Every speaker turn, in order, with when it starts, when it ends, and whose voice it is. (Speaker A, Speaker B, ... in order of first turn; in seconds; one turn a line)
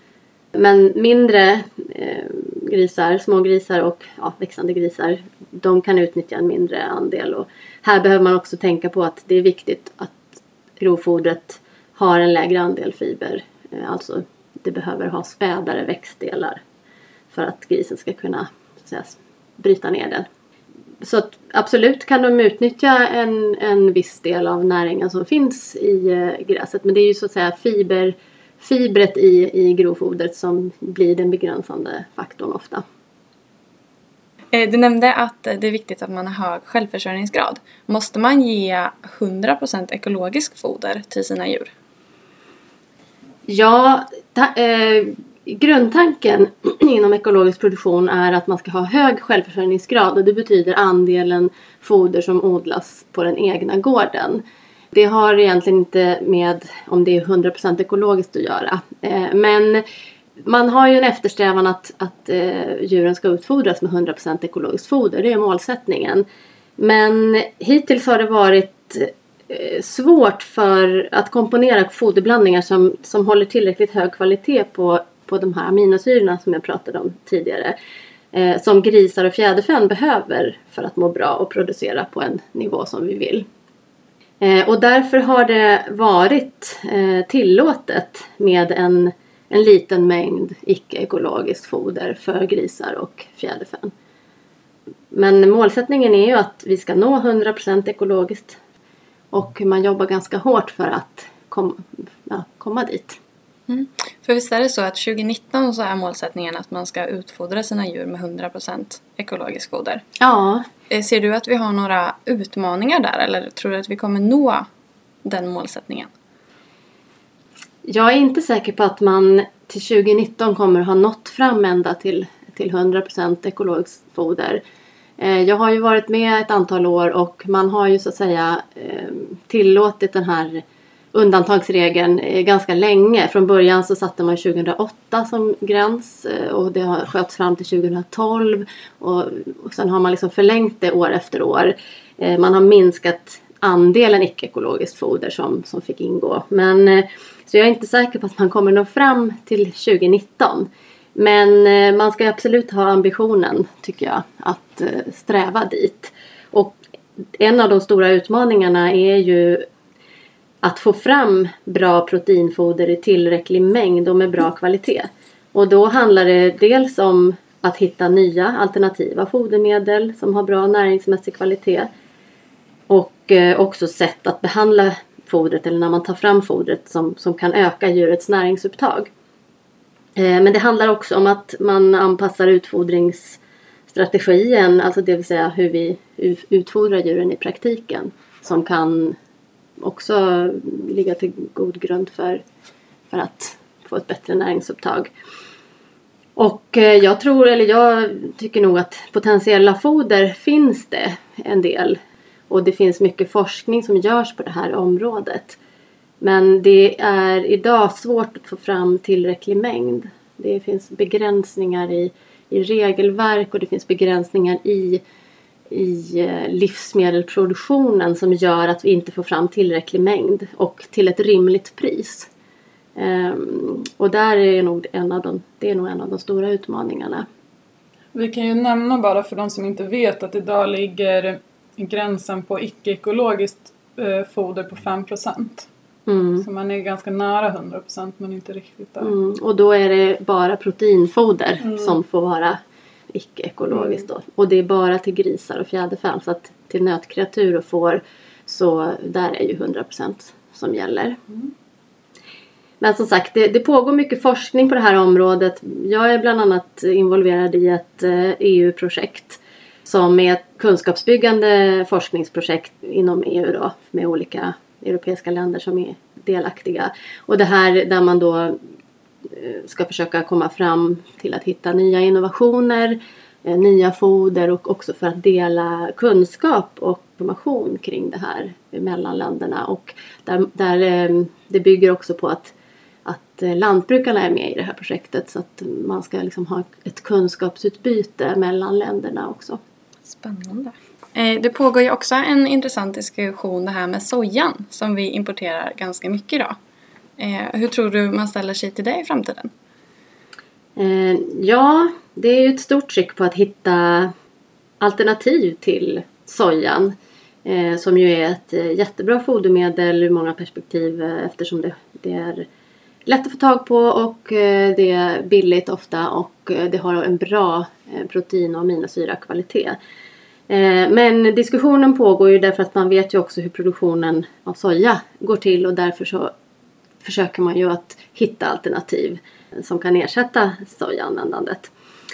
Speaker A: 0.6-10.3
Speaker A: 10.8-16.6
Speaker A: 17.3-20.3
Speaker A: 21.0-32.8
Speaker B: 34.5-41.7
Speaker A: 43.5-59.8
Speaker A: 60.4-66.2
Speaker A: 66.8-77.8
Speaker A: 78.3-83.5
Speaker A: 84.4-93.9
Speaker A: 95.1-98.6
Speaker A: 99.3-103.2
Speaker B: 103.7-110.0
Speaker A: 110.2-110.7
Speaker B: 110.9-114.7
Speaker B: 115.2-116.1
Speaker A: 117.8-124.6
Speaker A: 125.2-156.8
Speaker A: 157.4-159.7
Speaker A: 160.6-171.9
Speaker A: 172.9-179.1
Speaker A: 180.2-189.2
Speaker A: 189.8-192.4
Speaker A: 193.1-195.1
Speaker A: 196.4-202.0
Speaker A: 202.5-205.6
Speaker A: 206.2-215.0
Speaker A: 215.7-222.3
Speaker A: 223.0-227.3
Speaker C: 228.1-235.7
Speaker A: 236.1-236.4
Speaker C: 236.4-239.1
Speaker A: 239.0-242.6
Speaker A: 243.1-251.2
Speaker A: 252.8-268.6
Speaker A: 269.3-282.5
Speaker A: 283.1-289.6
Speaker B: 290.1-296.6
Speaker B: 297.2-299.5
Speaker A: 300.8-304.1
Speaker A: 304.8-312.5
Speaker A: 313.1-319.8
Speaker A: 320.5-326.3
Speaker A: 327.0-331.7